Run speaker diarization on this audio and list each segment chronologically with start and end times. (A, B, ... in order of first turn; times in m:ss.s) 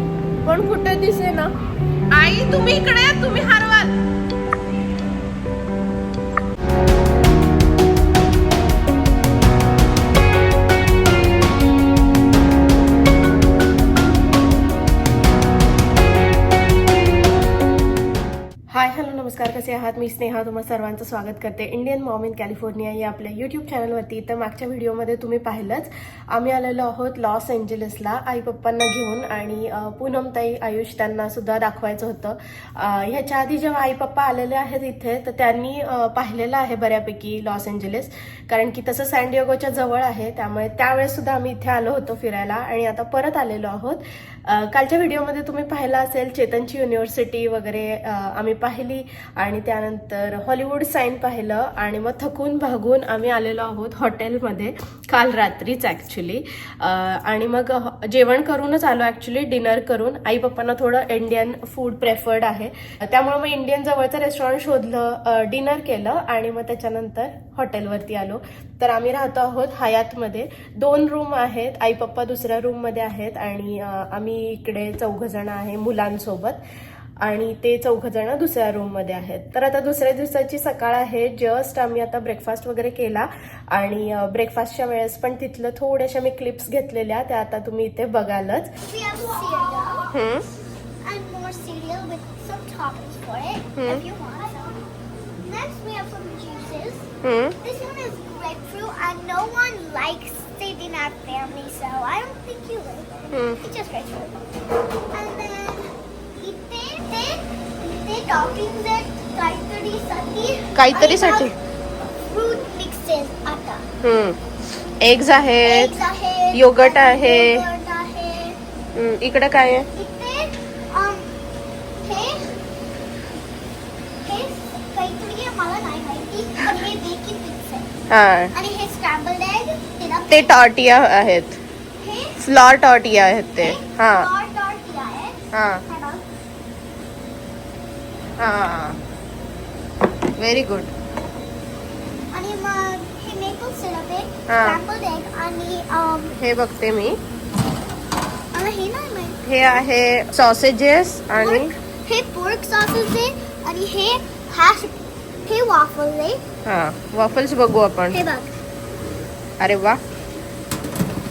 0:00.4-0:01.5 A
0:02.1-0:04.0 A
0:18.7-1:16.6 A
1:17.2-1:28.7 A
1:28.8-1:30.2 B
1:30.1-1:30.4 A
1:31.0-1:34.8 B
1:33.8-1:34.0 A
1:35.4-1:44.4 B
1:37.2-1:37.6 A
1:43.3-1:43.6 A
1:45.1-1:51.5 B
1:50.8-1:51.5 A
1:52.3-1:53.8 B
1:54.0-1:54.4 A
1:55.0-1:56.0 A
1:55.6-1:58.6 B
1:56.5-1:57.6 A
1:59.0-1:59.9 A
1:59.9-2:01.3 B
2:02.0-2:02.4 B
2:04.2-2:07.9 B
2:08.1-2:08.5 A
2:08.5-2:10.6 B
2:10.3-2:11.6 A
2:12.0-2:12.4 B
2:12.4-2:14.3 A
2:13.6-2:16.3 B
2:15.5-2:15.8 A
2:18.4-2:19.0 A
2:20.4-2:20.9 A
2:22.3-2:26.3 B
2:24.5-2:24.8 A
2:26.4-2:27.2 A
2:28.5-2:29.4 B
2:29.4-2:31.7 A
2:31.4-2:36.4 B
2:36.7-2:38.2 A
2:38.1-2:38.5 B
2:39.6-2:40.0 A